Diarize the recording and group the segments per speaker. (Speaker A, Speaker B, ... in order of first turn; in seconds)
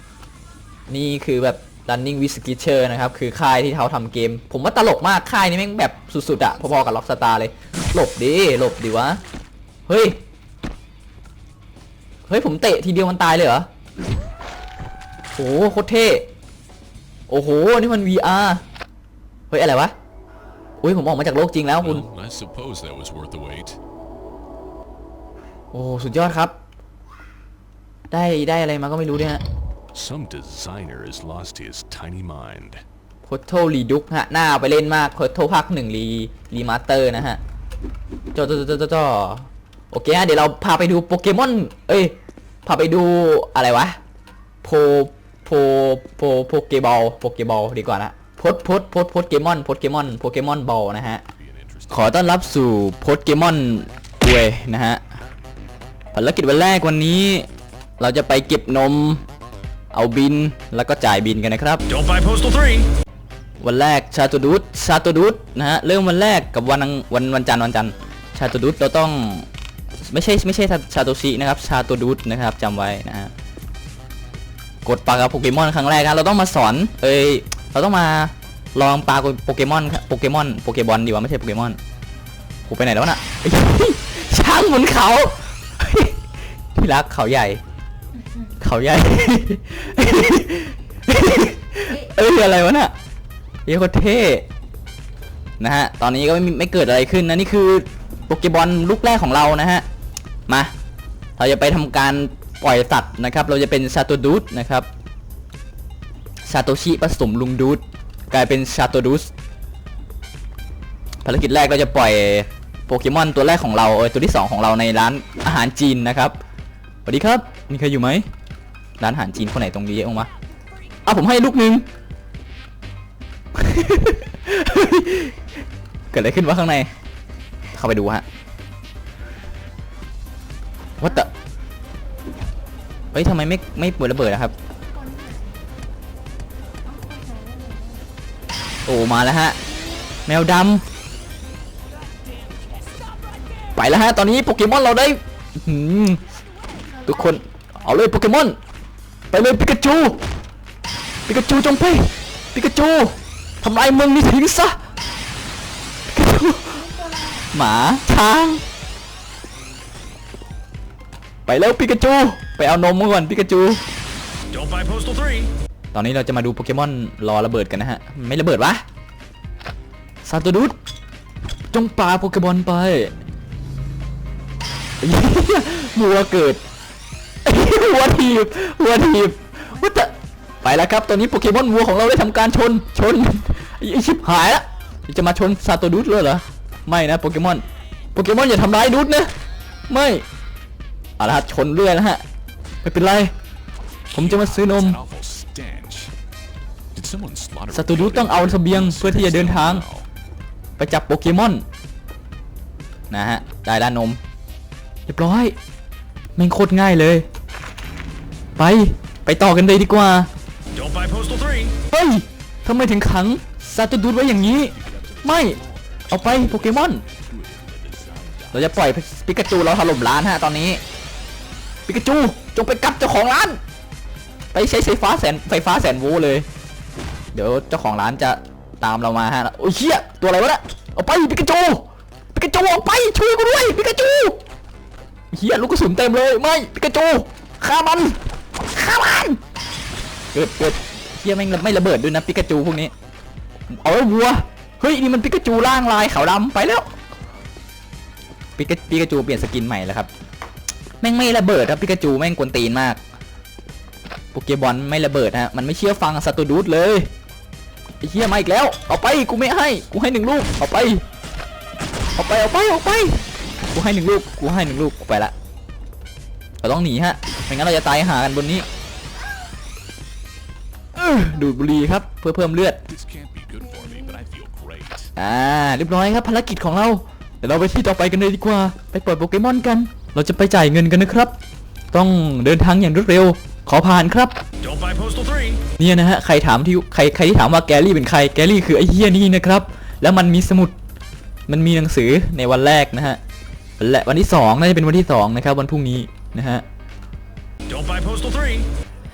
Speaker A: 0.9-9.2, 9.9-10.2, 12.3-13.7, 15.4-16.3, 17.3-18.6, 19.5-19.9, 20.8-22.1, 25.7-26.6, 28.1-29.4, 33.2-37.4, 38.3-44.0, 44.6-51.2, 51.9-55.0, 56.1-57.5, 58.0-59.2, 59.9-61.9, 63.6-69.5, 70.1-73.3, 74.8-81.8, 82.7-86.2, 86.7-87.6, 88.6-92.9, 93.7-94.5, 95.6-99.9, 100.5-100.7, 101.4-104.9, 106.5-109.3, 111.2-116.4, 117.1-118.3, 119.0-120.3, 121.0-121.9, 123.5-125.4, 126.1-126.9, 127.7-128.2, 131.0-131.3, 133.1-134.6, 138.9-139.6, 140.3-140.8, 143.7-146.2, 147.0-148.6, 149.3-150.2, 151.3-154.8, 156.1-158.7, 161.5-163.8, 165.9-168.8, 170.2-170.8, 171.7-173.1, 175.0-176.6, 177.4-187.6, 188.2-189.3, 189.9-190.2, 191.2-192.2, 192.8-193.3, 194.1-195.0, 197.7-199.8, 200.8-201.6, 203.1-204.2, 205.1-205.6, 206.4-207.3, 208.6-210.3, 211.8-217.0, 218.5-220.8, 221.9-223.6, 224.5-226.5, 227.3-234.4, 235.3-239.4, 240.3-242.9, 243.7-246.9, 248.6-250.1, 251.0-253.0, 254.3-257.1, 258.0-261.0, 262.2-265.3, 266.6-268.7, 270.9-272.8, 275.2-281.4, 281.9-284.4, 285.8-290.7, 291.5-293.2, 293.8-296.6
Speaker B: 21.8-23.8, 29.9-32.8, 51.4-52.3, 194.1-196.1, 196.9-200.1, 214.7-219.0, 272.9-275.1
Speaker C: 61.9-62.9, 136.9-137.9, 164.5-165.5, 210.8-211.7, 284.6-285.6, 297.7-298.7